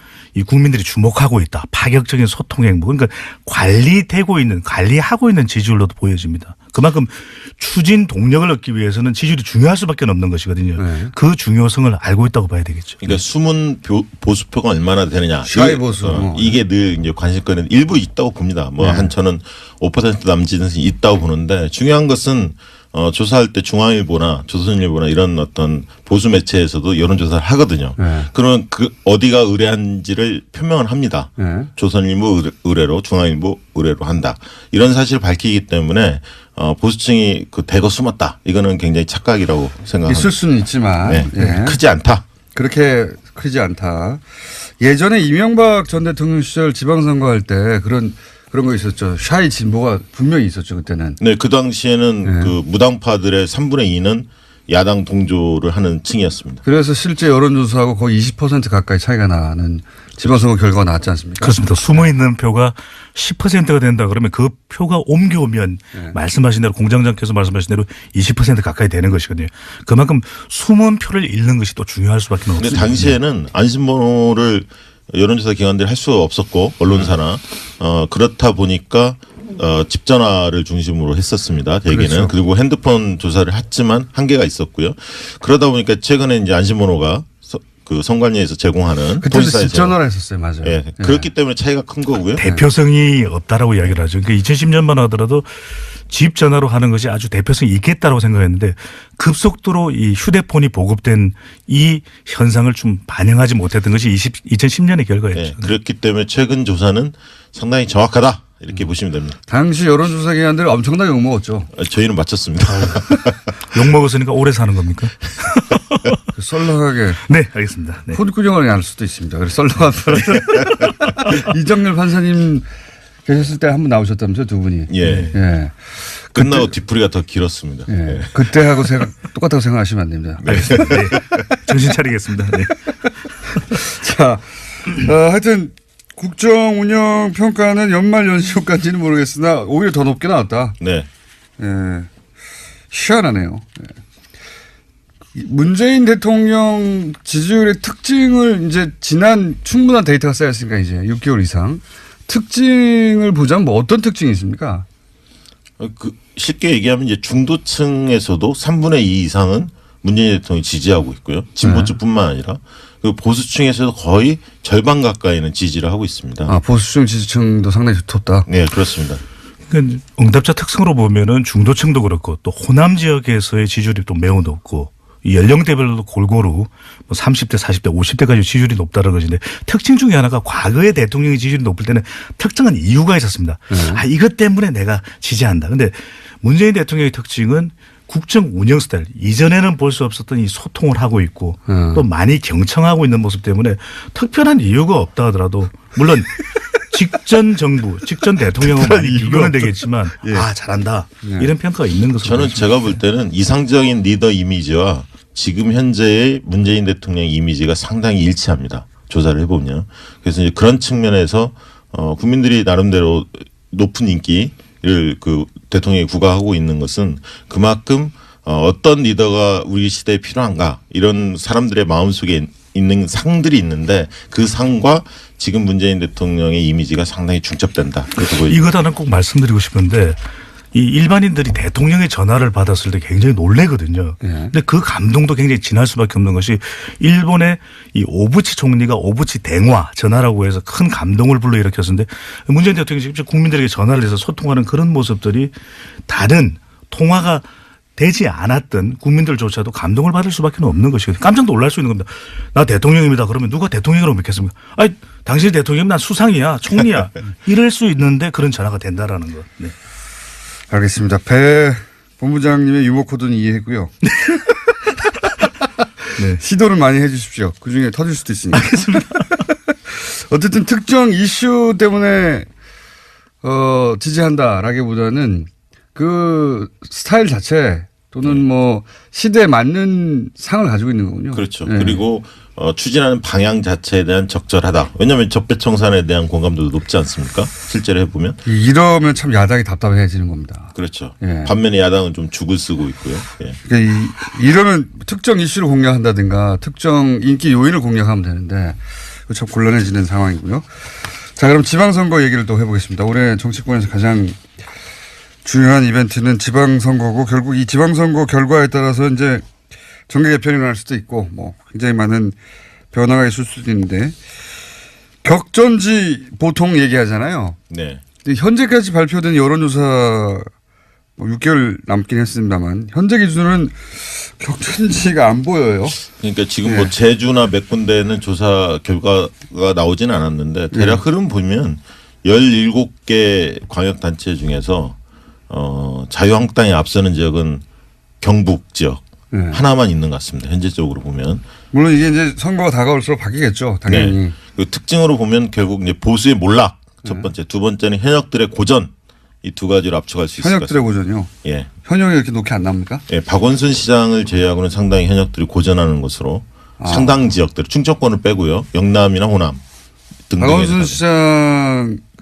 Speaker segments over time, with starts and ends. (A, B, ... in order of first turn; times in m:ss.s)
0:00.3-0:13.2 A
0:10.8-0:11.1 B
0:13.0-0:40.3 C
0:15.4-0:16.6 B
0:18.8-0:19.1 B
0:28.0-0:28.3 B
0:31.4-0:31.7 B
0:40.0-0:41.8 B
0:41.0-0:42.2 C
0:42.5-0:51.2 B
0:51.2-0:56.6 C
0:52.2-0:52.5 B
0:56.6-1:02.0 B
1:01.4-1:13.2 A
1:12.6-1:30.0 C
1:21.9-1:22.3 B
1:29.2-1:31.3 B
1:30.6-1:32.4 C
1:32.4-1:32.6 B
1:32.4-1:45.7 A
1:45.3-1:49.4 C
1:49.5-1:51.7 B
1:51.7-1:53.4 C
1:52.8-1:53.0 A
1:53.7-1:56.2 A
1:56.3-1:57.2 B
1:57.2-1:58.2 A
1:58.1-2:02.6 B
2:00.3-2:01.3 A
2:03.2-2:05.8 B
2:04.9-2:05.4 C
2:05.0-2:05.3 A
2:06.3-2:08.7 C
2:07.9-2:11.7 B
2:10.4-2:11.4 C
2:10.5-2:12.8 A
2:12.5-2:20.8 B
2:20.8-2:21.1 C
2:21.6-2:22.1 B
2:22.9-2:23.9 B
2:25.3-2:34.8 B
2:35.8-2:46.5 C
2:41.6-2:41.9 B
2:46.5-2:48.5 B
2:48.5-2:49.2 C
2:49.7-3:22.9 A
3:03.7-3:04.0 B
3:11.7-3:12.0 B
3:18.6-3:20.4 B
3:21.2-3:21.5 B
3:22.2-3:48.6 C
3:48.2-3:50.2 A
3:50.7-4:19.7 A
3:54.2-3:54.5 B
4:20.7-4:24.0 B
4:26.2-4:32.5 B
4:28.5-4:29.4 A
4:33.4-4:42.0 B
4:41.3-4:48.4 C
4:48.4-4:51.5 B
4:50.8-4:53.6 C
4:53.6-5:04.4 B
5:05.4-5:09.4 B
5:10.1-5:12.4 B
5:12.9-5:14.2 B
5:15.2-5:17.6 B
5:17.7-5:18.0 C
5:18.2-5:20.5 B
5:21.2-5:26.0 B
5:26.0-5:35.0 C
5:26.6-5:26.9 B
5:30.7-5:31.0 B
5:35.5-5:37.6 C
5:38.2-5:41.4 C
5:39.3-5:39.6 B
5:41.7-5:44.4 B
5:43.9-5:48.9 C
5:49.4-5:50.7 C
5:50.4-5:51.3 B
5:51.4-5:51.7 C
5:51.8-5:53.0 B
5:53.1-5:59.6 C
5:56.8-5:57.2 B
6:00.3-6:01.0 C
6:00.4-6:02.0 B